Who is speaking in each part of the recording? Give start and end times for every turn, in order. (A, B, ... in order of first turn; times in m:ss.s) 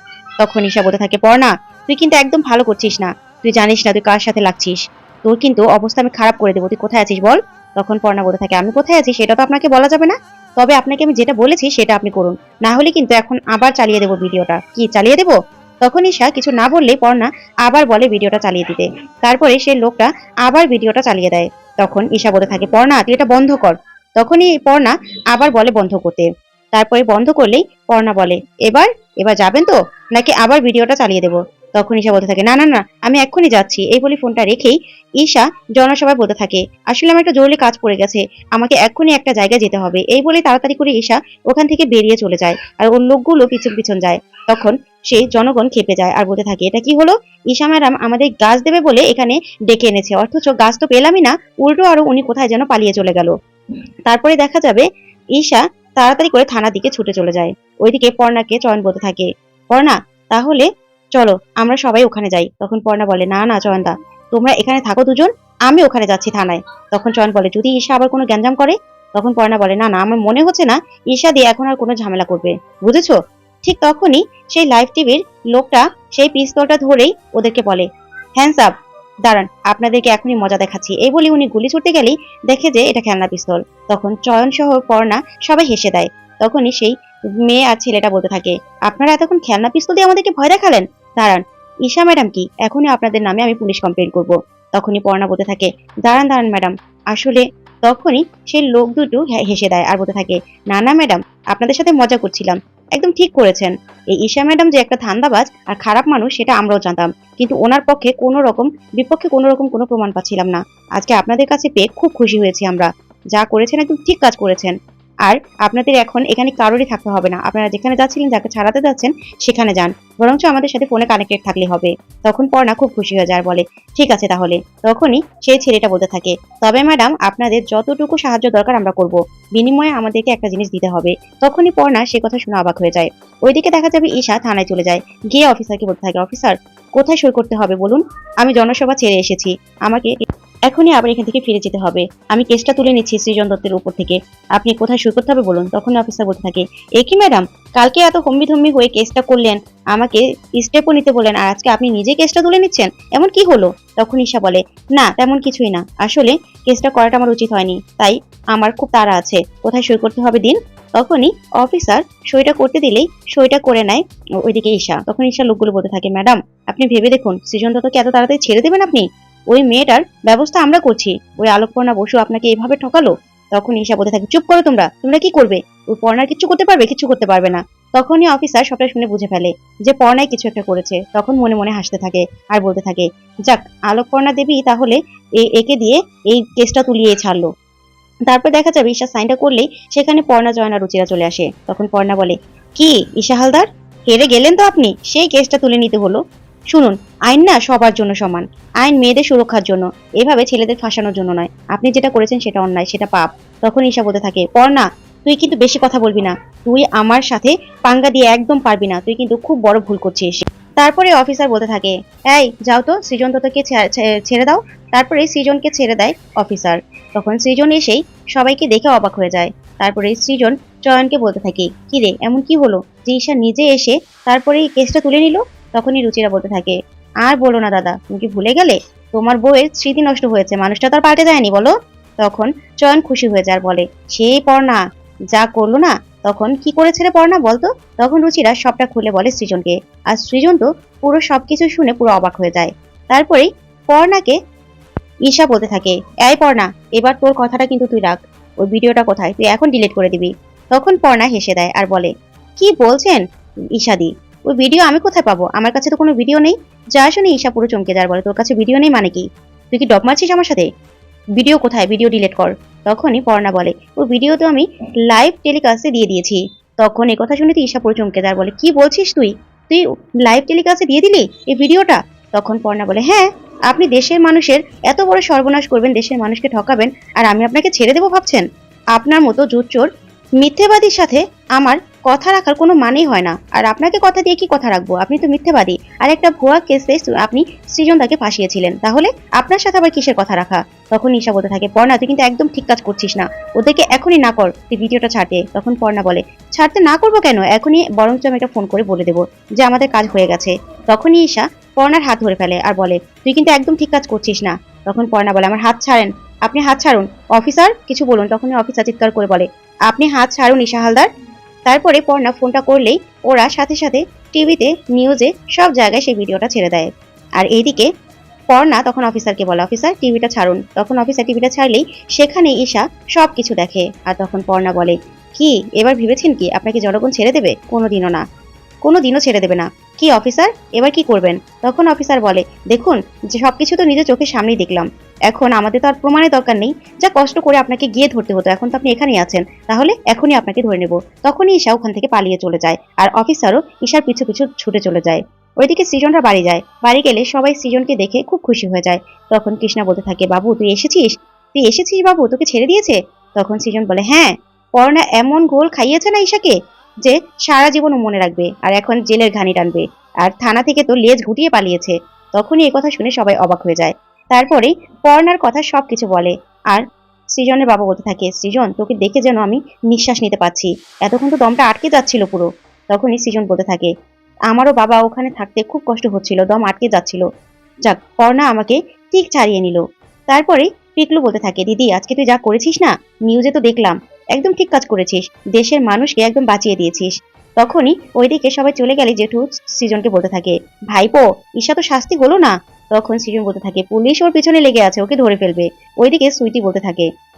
0:00.4-0:53.3 A
0:54.0-1:17.8 A
1:18.4-1:18.7 A
1:19.2-2:20.1 A
2:20.7-3:07.5 A
3:08.3-3:16.2 A
3:16.7-3:54.8 A
3:55.3-4:04.4 A
4:05.2-4:13.2 A
4:13.7-4:20.7 A
4:21.4-4:38.4 A
4:38.9-5:11.1 A
5:11.6-5:17.9 A
5:18.5-5:28.2 A
5:28.8-6:06.8 A
6:07.4-6:13.9 A
6:14.5-6:17.2 A
6:17.8-6:37.1 A